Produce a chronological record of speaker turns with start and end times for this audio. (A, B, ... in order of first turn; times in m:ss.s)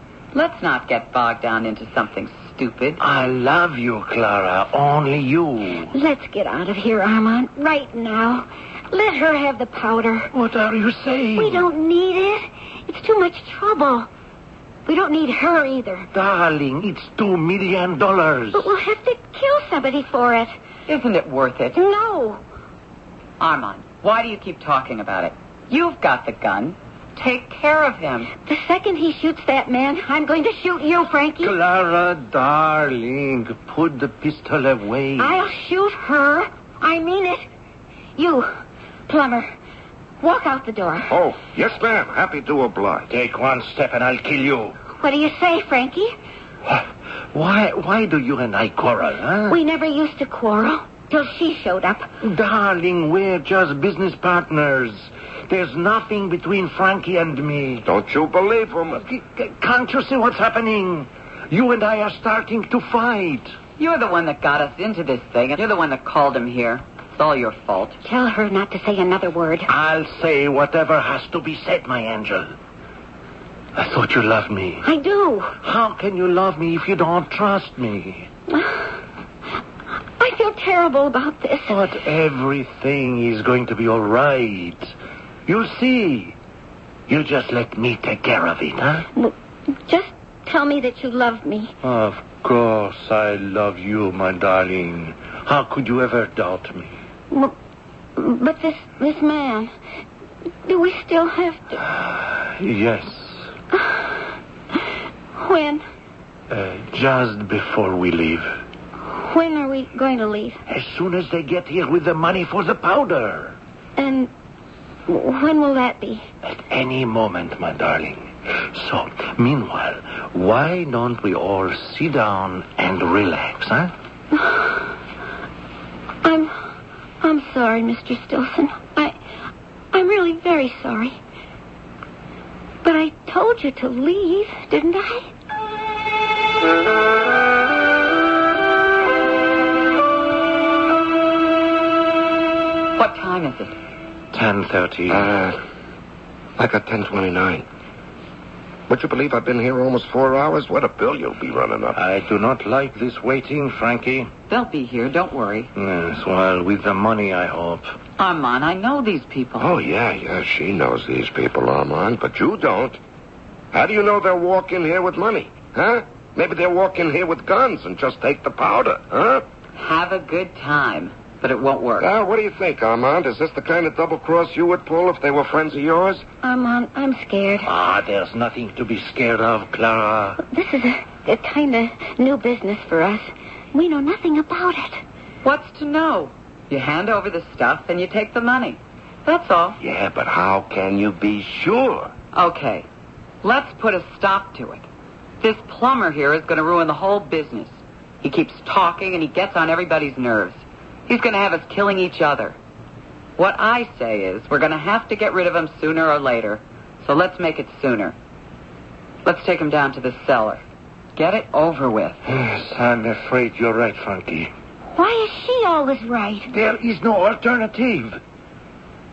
0:00.3-0:03.0 A
0:03.0-0:05.9 B
0:05.9-0:10.3 C
0:10.3-0:11.6 B
0:11.4-0:14.1 C
0:14.8-0:16.1 C
0:16.1-0:18.6 B
0:18.5-0:20.5 C
0:20.9-0:21.8 A
0:21.7-0:22.4 C
0:23.4-0:28.3 A
0:28.4-0:31.5 C
0:31.4-0:35.4 B
0:35.2-0:37.5 C
0:38.2-0:38.5 C
0:39.1-0:39.5 C
0:40.2-0:41.1 C
0:41.1-0:43.1 D
0:43.1-0:44.8 B
0:45.0-0:46.1 C
0:46.6-0:49.6 B
0:49.5-0:52.1 C
0:52.2-0:57.8 B
0:57.8-0:59.0 D
0:59.0-1:03.5 B
1:03.8-1:08.0 A
1:08.0-1:09.7 C
1:09.7-1:12.5 B
1:13.8-1:14.8 B
1:14.8-1:15.5 C
1:15.6-1:18.3 B
1:18.5-1:18.8 C
1:20.2-1:21.8 C
1:21.7-1:24.9 B
1:25.4-1:26.4 B
1:27.1-1:29.0 B
1:29.1-1:31.7 C
1:31.8-1:37.0 B
1:38.2-1:39.7 C
1:40.6-1:41.8 C
1:41.8-1:43.4 B
1:43.7-1:44.1 C
1:45.4-1:45.8 C
1:46.5-1:48.6 B
1:49.1-1:50.6 C
1:50.7-1:53.6 B
1:54.0-1:54.3 C
1:55.1-1:56.2 C
1:56.4-2:03.9 B
2:04.4-2:04.6 C
2:06.2-2:06.5 C
2:07.2-2:09.2 C
2:09.9-2:11.2 C
2:12.8-2:15.3 C
2:23.0-2:23.7 A
2:24.3-2:25.3 B
2:25.1-2:25.6 D
2:26.6-2:27.6 D
2:28.9-2:32.0 D
2:31.9-2:34.3 B
2:34.5-2:35.7 A
2:35.8-2:37.9 B
2:38.2-2:39.7 A
2:39.6-2:43.0 D
2:43.7-2:49.4 D
2:49.8-2:52.1 A
2:52.0-2:56.2 D
2:56.4-2:57.7 C
2:57.6-3:00.4 B
3:00.4-3:05.0 C
3:05.4-3:09.8 A
3:09.8-3:12.1 D
3:12.3-3:12.8 A
3:13.4-3:14.8 A
3:15.4-3:22.6 A
3:23.4-3:28.2 A
3:29.2-3:30.6 A
3:31.2-3:32.2 A
3:32.3-3:34.5 B
3:34.9-3:36.5 C
3:36.5-3:38.2 B